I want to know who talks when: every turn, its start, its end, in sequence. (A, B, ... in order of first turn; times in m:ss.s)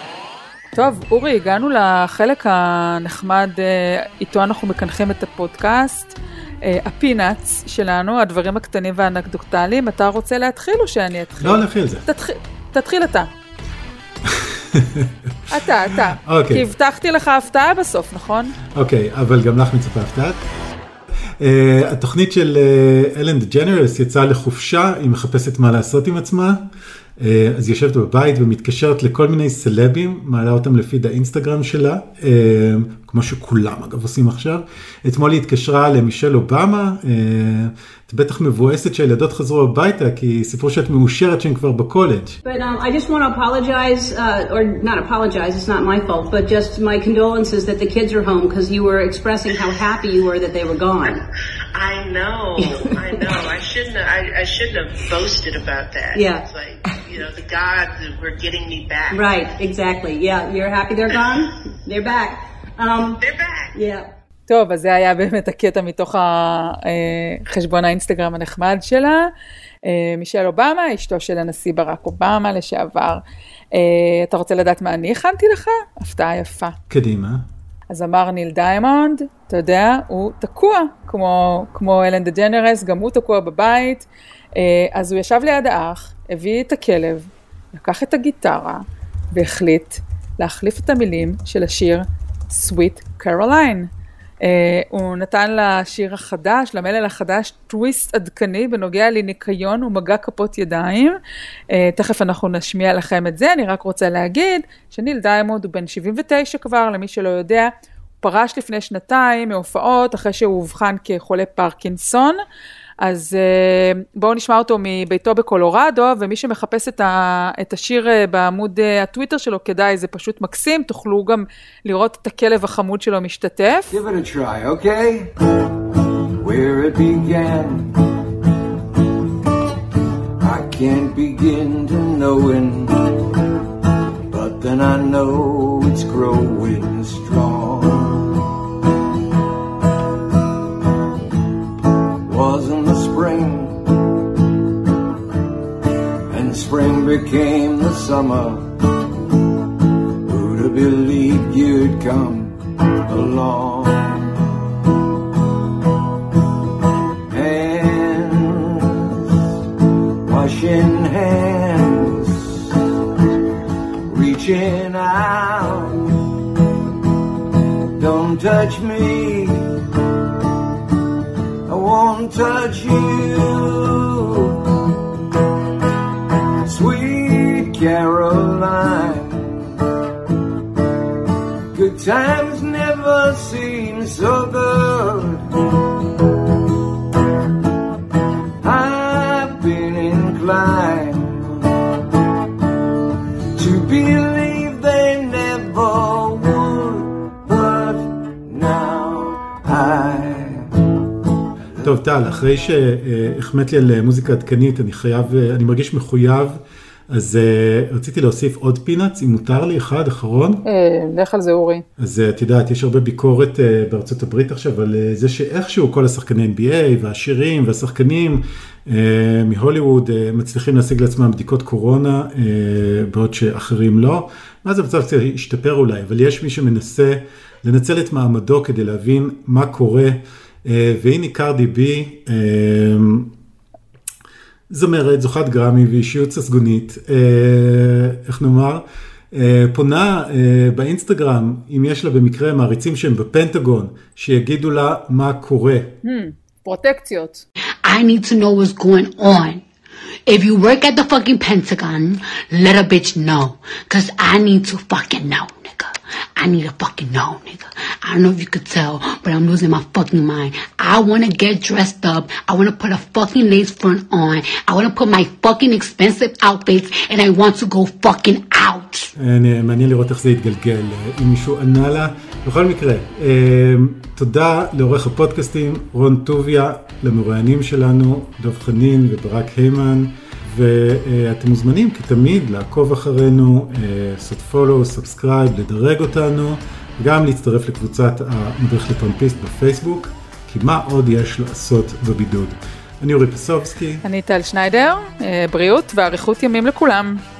0:00.7-0:13.3 A
0:11.4-0:12.0 B
0:14.2-0:15.1 B
0:15.5-0:18.5 A
0:16.2-0:16.7 B
0:18.7-0:20.4 B
0:21.4-0:26.6 B
0:27.2-0:42.4 B
0:42.4-0:51.2 C
0:51.7-0:59.4 D
0:52.6-0:52.9 C
0:56.1-0:56.4 C
0:59.1-1:03.2 C
1:03.1-1:03.7 D
1:03.7-1:04.1 C
1:04.5-1:09.3 A
1:09.8-1:13.2 A
1:13.7-1:16.7 A
1:16.9-1:17.4 B
1:17.9-1:33.9 A
1:34.4-1:41.2 A
1:41.7-1:47.7 A
1:48.2-1:52.4 A
1:53.0-2:03.9 A
2:03.9-2:05.3 E
2:06.4-2:07.9 E
2:10.4-2:13.2 E
2:14.3-2:18.3 E
2:22.2-2:23.8 E
2:26.3-2:28.7 E
2:30.2-2:34.3 E
2:37.3-2:39.0 E
2:40.3-2:42.4 E
2:44.0-2:46.0 E
2:48.0-2:49.7 E
2:51.7-2:54.6 E
2:56.6-2:59.7 E
3:01.7-3:05.5 E
3:08.6-3:11.8 E
3:13.5-3:20.7 E
3:21.8-3:30.6 B
3:30.7-3:31.8 A
3:32.0-3:53.3 B
3:54.7-4:06.0 B
4:06.0-4:07.4 A
4:07.8-4:09.6 F
4:10.3-4:29.1 F
4:29.2-4:54.0 B
4:54.0-4:57.2 A